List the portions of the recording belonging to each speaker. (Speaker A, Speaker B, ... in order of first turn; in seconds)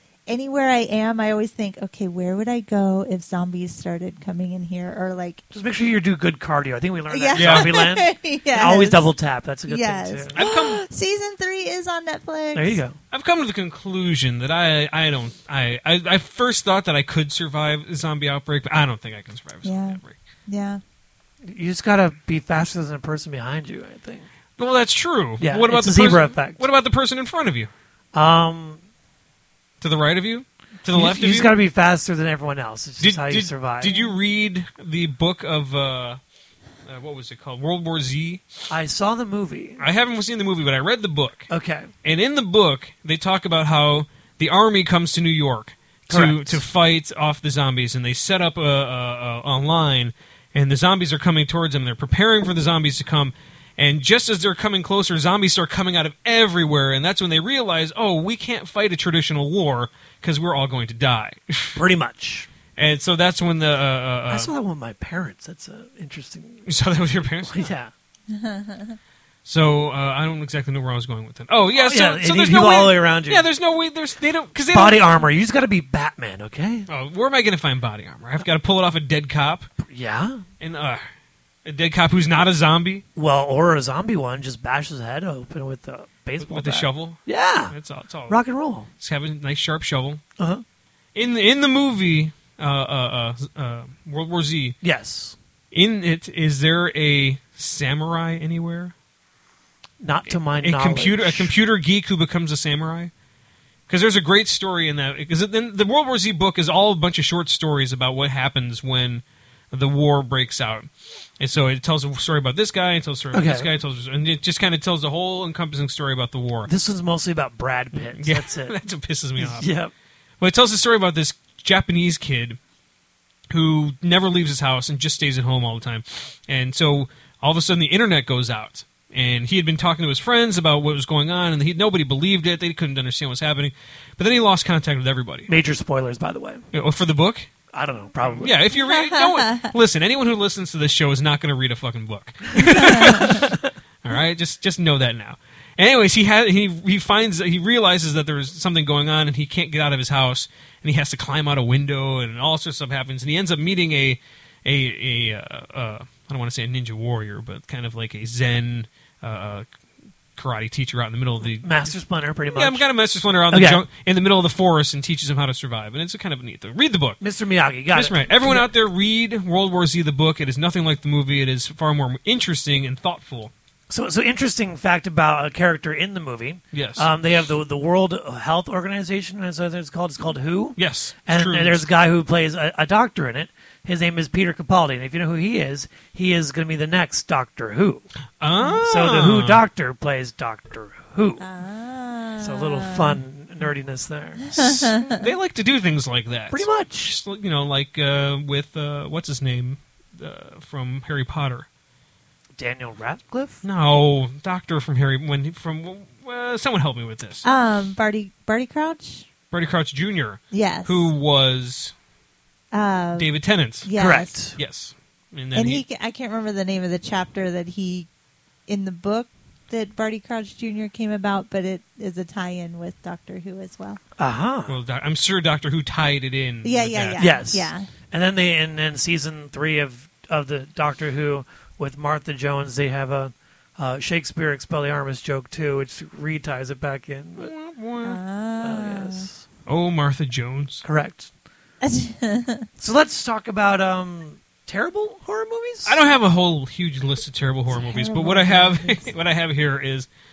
Speaker A: 0.3-5.4, 7.1-9.1, 9.6-12.8, 19.6-20.8, 68.3-69.0, 139.1-139.7, 142.9-143.3, 191.4-193.2, 194.5-195.2, 207.4-209.3, 210.5-211.1, 212.7-213.3, 213.8-214.3, 215.5-218.1, 218.7-224.0, 226.6-227.9, 238.0-239.3, 241.8-242.7, 247.7-249.1
Speaker B: 5.5-10.4, 12.6-13.0, 21.4-24.3, 25.4-26.6, 28.1-28.8, 30.9-33.9, 38.7-39.8, 41.5-41.9, 46.1-46.6, 61.8-62.5, 64.3-66.7, 67.4-67.9, 71.7-73.5, 74.7-76.9, 79.8-80.4, 83.2-87.8, 88.3-88.9, 90.4-90.6, 94.8-95.4, 100.0-101.5, 113.3-113.7, 116.7-118.8, 119.4-119.9, 135.5-136.6, 137.7-138.6, 161.6-162.8, 163.5-163.8, 167.2-168.7, 173.9-188.1, 188.8-191.4, 192.4-194.9, 196.5-197.2, 202.6-203.6, 214.0-214.6, 224.2-224.8, 227.2-237.5, 238.6-239.4, 240.8-241.3, 242.8-246.0
Speaker C: 7.3-7.8, 10.3-10.8, 13.1-20.2, 24.6-27.7, 29.8-31.6, 33.0-36.2, 36.9-38.5, 39.8-41.5, 42.0-61.8, 62.8-64.5, 66.7-67.7, 69.5-75.2, 76.9-79.7, 80.6-81.0, 81.7-83.0, 86.4-88.4, 89.0-90.2, 91.2-94.8, 95.7-98.9, 100.3-103.1, 103.9-116.7, 117.9-119.7, 120.4-122.6, 123.5-135.5, 136.7-137.5, 138.4-159.7, 160.4-161.9, 162.5-167.2, 167.9-173.5, 176.7-177.1, 180.8-181.9, 188.4-189.6, 195.0-201.7, 203.6-207.4, 209.5-211.9, 213.2-213.9, 214.6-215.8, 224.7-227.2, 237.4-238.2, 239.7-240.8, 245.8-250.1